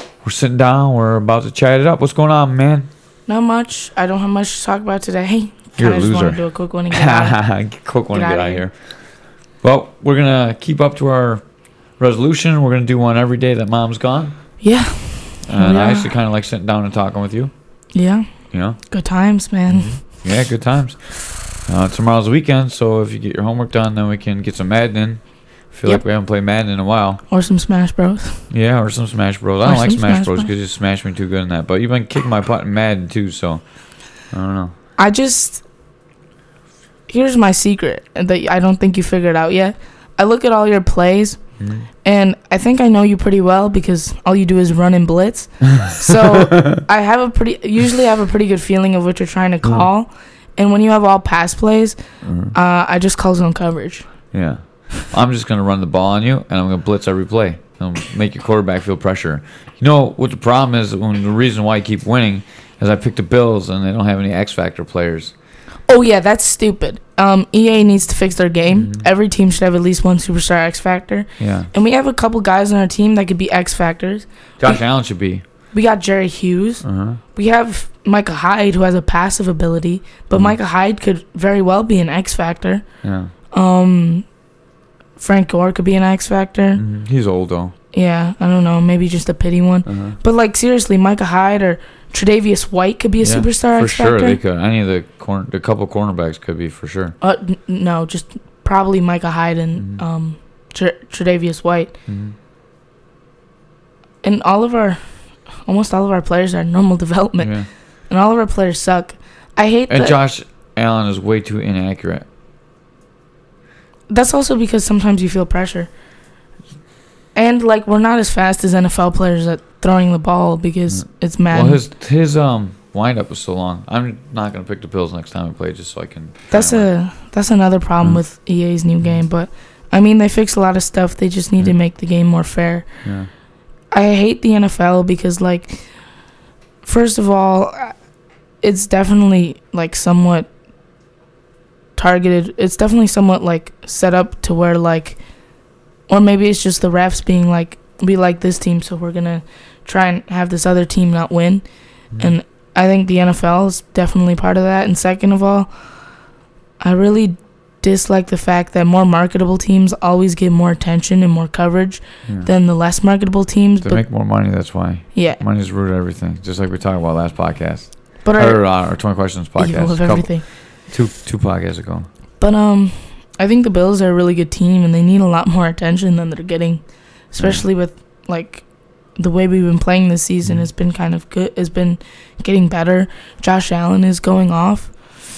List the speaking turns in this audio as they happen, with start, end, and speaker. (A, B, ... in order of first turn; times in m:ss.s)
0:00.2-0:02.9 A
0:03.3-0:07.4 B
0:05.8-0:08.8 A
0:08.1-0:08.6 B
0:09.6-0:11.4 A
0:12.0-0:14.4 A
0:14.6-0:16.1 B
0:15.4-0:17.5 A
0:17.9-0:18.3 B
0:18.5-0:18.8 A
0:18.9-0:20.0 B
0:19.7-0:27.2 A
0:27.3-0:28.5 B
0:28.5-0:33.6 A
0:29.6-0:30.5 B
0:34.2-0:34.7 A
0:35.0-0:35.6 B
0:37.1-0:41.4 B
0:41.6-0:41.9 A
0:42.0-0:52.0 B
0:46.6-0:46.8 A
0:52.2-0:52.6 A
0:52.5-0:54.0 B
0:54.3-1:05.3 A
1:05.9-1:14.8 B
1:08.8-1:09.1 A
1:11.4-1:11.7 A
1:14.6-1:15.4 A
1:15.7-1:16.8 B
1:16.8-1:17.2 A
1:17.4-1:22.8 B
1:23.0-1:23.3 A
1:23.5-1:24.3 B
1:25.2-1:26.8 B
1:26.8-1:27.7 A
1:27.9-1:34.4 B
1:29.9-1:30.2 A
1:33.2-1:37.2 A
1:37.2-1:41.9 B
1:42.1-1:42.4 A
1:44.2-1:45.0 B
1:45.6-1:47.6 B
1:47.4-1:47.7 A
1:48.1-1:50.2 B
1:49.9-1:52.3 A
1:54.1-1:55.9 B
1:57.4-2:01.8 B
2:00.9-2:06.9 A
2:06.5-2:12.9 B
2:13.0-2:13.3 A
2:13.9-2:15.9 B
2:16.8-2:18.0 B
2:18.6-2:20.5 B
2:22.0-2:25.2 B
2:26.1-2:31.7 B
2:32.2-2:35.7 B
2:36.8-2:44.1 B
2:43.8-2:52.1 A
2:45.1-2:45.4 B
2:48.2-2:48.8 B
2:49.6-2:50.4 B
2:52.4-2:58.6 B
2:57.4-2:57.6 A
2:59.2-3:04.9 B